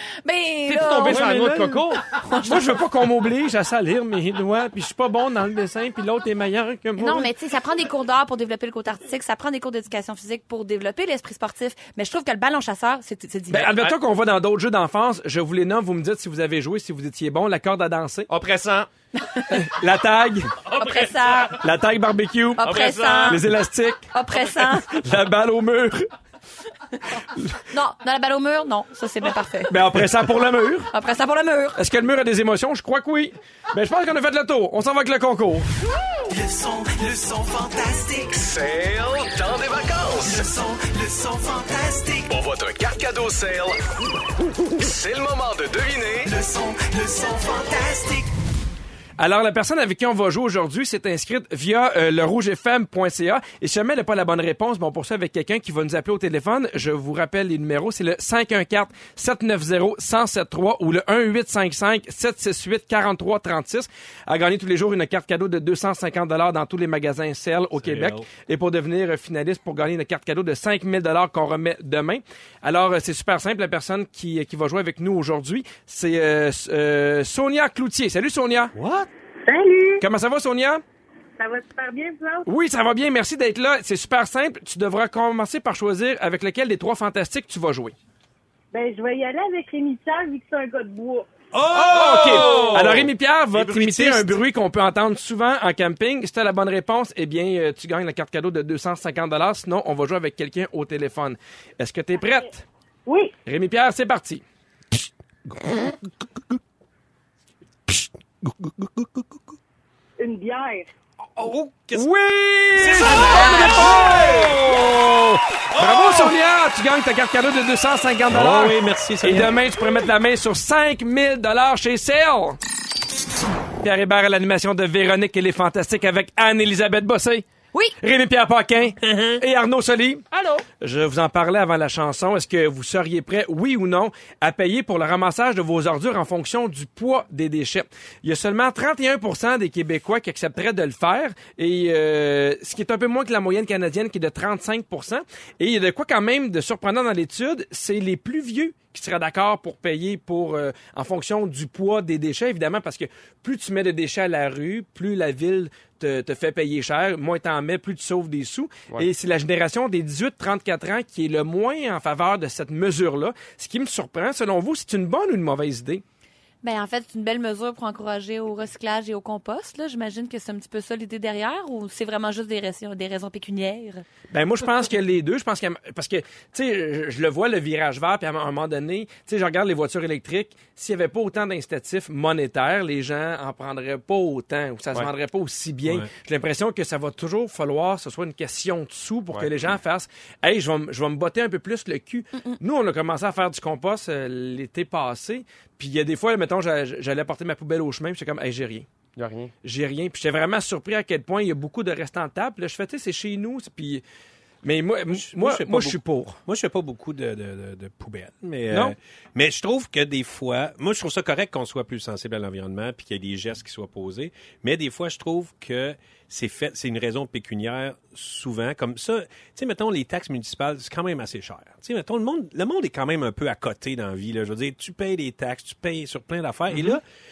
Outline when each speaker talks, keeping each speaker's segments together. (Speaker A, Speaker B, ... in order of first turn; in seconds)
Speaker A: 0.2-1.2, 2.1-2.7, 7.0-13.8, 19.1-19.6, 20.8-21.6, 22.6-23.4, 24.1-24.9, 27.7-29.7, 30.9-31.8, 113.1-113.8, 166.6-174.0
Speaker B: 0.7-2.0, 18.3-18.9, 20.6-21.6, 22.6-23.4, 189.3-189.7, 199.2-199.5
Speaker C: 1.1-1.8, 2.4-7.3, 13.5-18.3, 19.5-20.5, 21.6-22.7, 23.2-26.1, 29.7-30.9, 31.8-35.7, 49.2-78.7, 80.0-80.8, 82.5-87.9, 91.7-102.6, 103.5-104.4, 111.9-122.6, 123.8-127.5, 128.0-166.0, 174.3-198.9, 199.6-204.0, 204.6-206.4
Speaker D: 36.3-38.4, 40.2-42.3, 46.2-48.3
Speaker E: 38.3-40.5, 42.3-43.8, 44.7-46.3
Speaker F: 67.8-68.2, 78.7-79.1, 91.5-94.4, 105.6-105.9, 107.9-109.5, 111.3-112.1, 112.7-114.8, 115.7-116.3, 118.3-119.6, 129.0-129.4, 205.1-227.0
Speaker G: 79.5-80.0, 81.4-82.5, 88.7-91.3, 103.0-103.3, 110.2-110.9